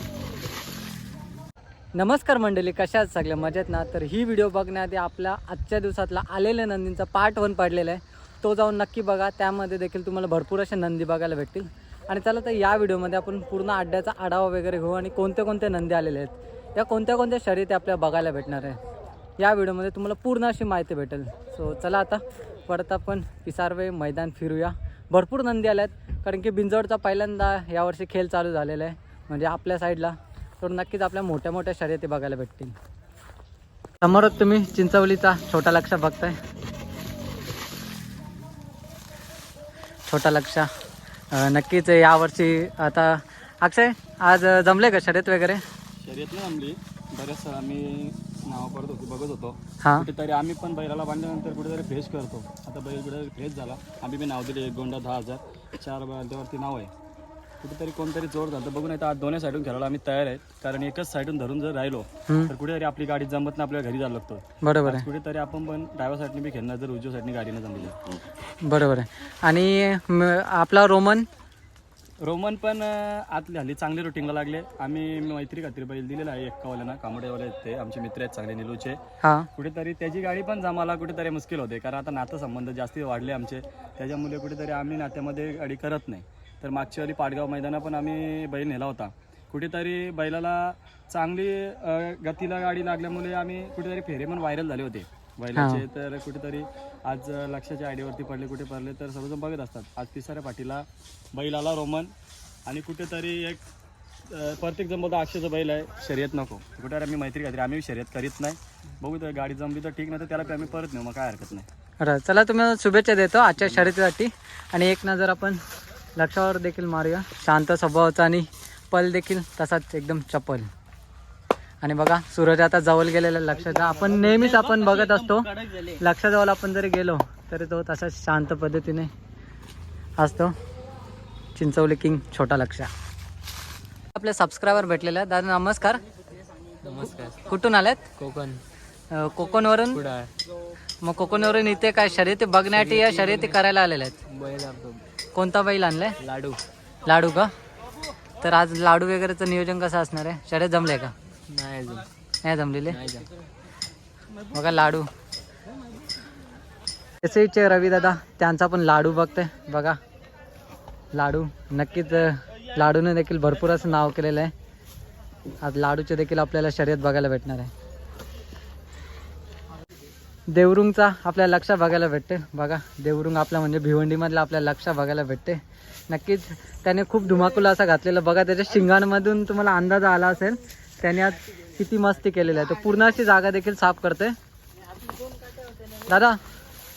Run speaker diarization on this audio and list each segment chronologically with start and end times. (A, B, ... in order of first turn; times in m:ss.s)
0:01.9-0:18.8 A
0:19.4-0:32.7 A
0:34.0-0:36.4 A
0:40.1-0:40.7 A
0:41.3-0:45.6 A
0:46.0-0:56.9 B
0:49.8-0:50.1 A
0:57.6-1:08.0 B
1:02.3-1:02.5 A
1:04.6-1:05.1 A
1:08.6-1:11.3 A
1:12.2-1:19.0 B
1:19.2-1:19.5 A
1:19.5-1:42.1 B
1:35.5-1:35.8 A
1:42.6-1:43.6 B
1:44.2-1:51.7 B
1:52.0-1:55.6 A
1:56.2-2:00.7 A
2:01.8-2:09.1 A
2:10.2-2:10.5 A
2:11.5-2:12.9 A
2:14.1-2:16.0 A
2:16.8-2:17.4 C
2:17.4-2:18.1 A
2:18.2-2:18.6 C
2:19.1-2:20.0 A
2:19.9-2:20.3 C
2:21.0-2:24.2 A
2:24.3-2:25.0 C
2:25.3-2:26.2 A
2:26.2-2:26.6 C
2:27.0-2:27.5 A
2:28.4-2:31.1 A
2:31.5-2:32.0 C
2:32.4-2:33.0 A
2:32.9-2:33.2 C
2:34.5-2:35.1 A
2:37.2-2:40.0 A
2:41.1-2:44.5 A
2:45.6-2:47.7 A
2:50.5-3:04.3 A
3:06.0-3:06.4 A